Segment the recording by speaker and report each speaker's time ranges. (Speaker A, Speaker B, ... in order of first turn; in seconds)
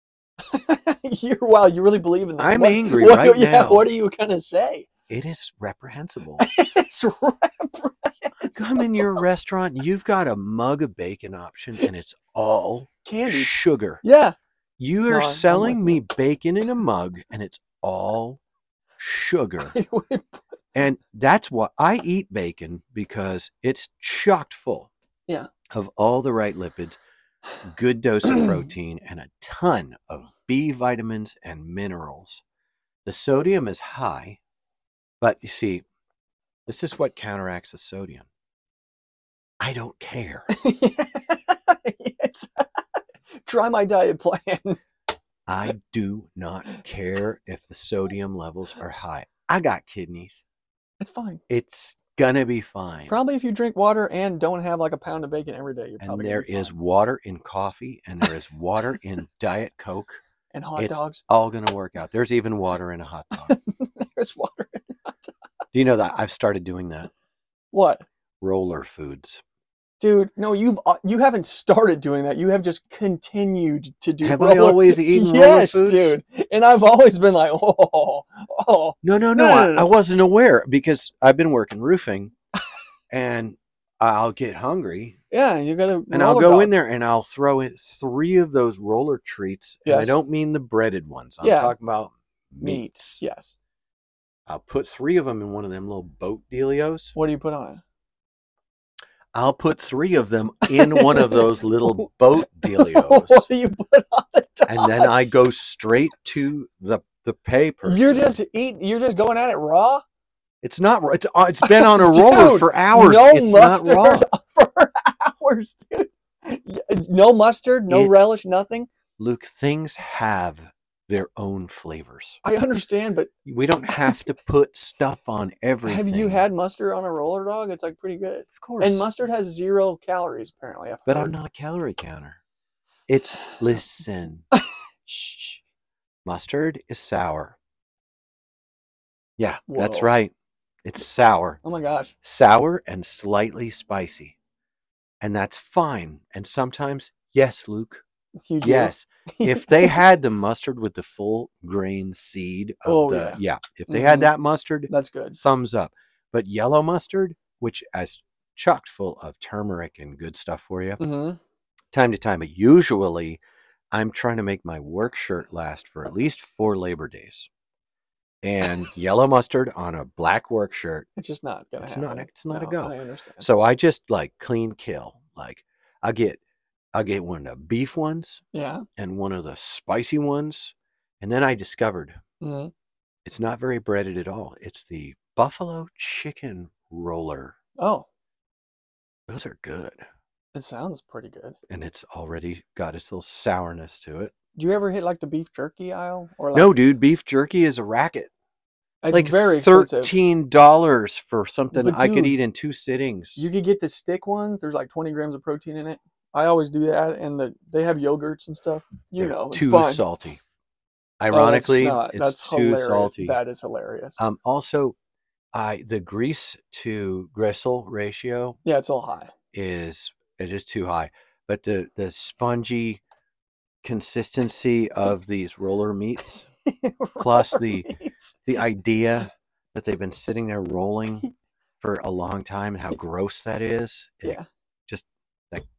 Speaker A: 0.4-4.9, 6.4-9.2, 13.1-14.4, 15.1-16.0, 19.7-20.4, 40.5-44.8, 51.0-51.4, 53.1-56.7, 60.5-61.2, 63.4-65.3, 67.7-68.1, 70.0-79.9, 85.3-86.7, 89.9-90.2, 91.4-91.8, 92.6-93.5, 97.2-97.8, 100.7-105.4, 107.8-110.0, 111.6-118.9, 122.4-123.3, 123.9-124.2, 125.8-131.3, 134.5-135.6, 139.7-140.1, 141.6-142.1, 148.5-150.0, 152.9-154.3, 154.9-155.4, 161.0-161.4, 171.2-173.5, 178.5-178.8, 182.4-182.7, 187.8-188.1, 190.5-191.6, 194.6-196.8, 199.0-200.1, 201.7-202.4, 203.4-210.0, 211.3-214.2, 218.7-219.3, 226.6-228.4
Speaker B: 2.4-3.9, 5.1-6.5, 8.4-14.0, 14.8-18.4, 19.0-19.8, 20.8-24.9, 25.7-27.0, 27.6-32.4, 33.0-34.4, 35.2-35.9, 36.7-38.3, 39.6-40.5, 45.5-50.4, 51.5-53.2, 56.0-60.2, 60.8-63.6, 65.7-67.1, 68.4-69.4, 74.2-76.2, 79.0-82.3, 83.1-85.2, 86.1-93.2, 94.5-97.2, 99.3-103.5, 104.7-108.3, 110.6-114.3, 117.9-118.2, 119.2-122.4, 123.5-126.5, 128.6-129.1, 131.1-132.4, 133.1-134.5, 136.2-137.6, 139.4-140.3, 140.8-141.6, 142.2-144.4, 145.2-148.0, 148.6-161.0, 161.9-167.5, 168.4-171.1, 171.8-176.4, 176.9-178.4, 179.0-182.2, 183.2-187.6, 189.3-190.0, 191.7-194.3, 196.5-198.3, 199.1-203.5, 209.2-210.4, 211.2-213.4, 214.2-215.0, 215.5-218.6, 219.5-223.0, 223.8-226.5, 227.2-227.9, 228.5-231.3, 231.8-235.7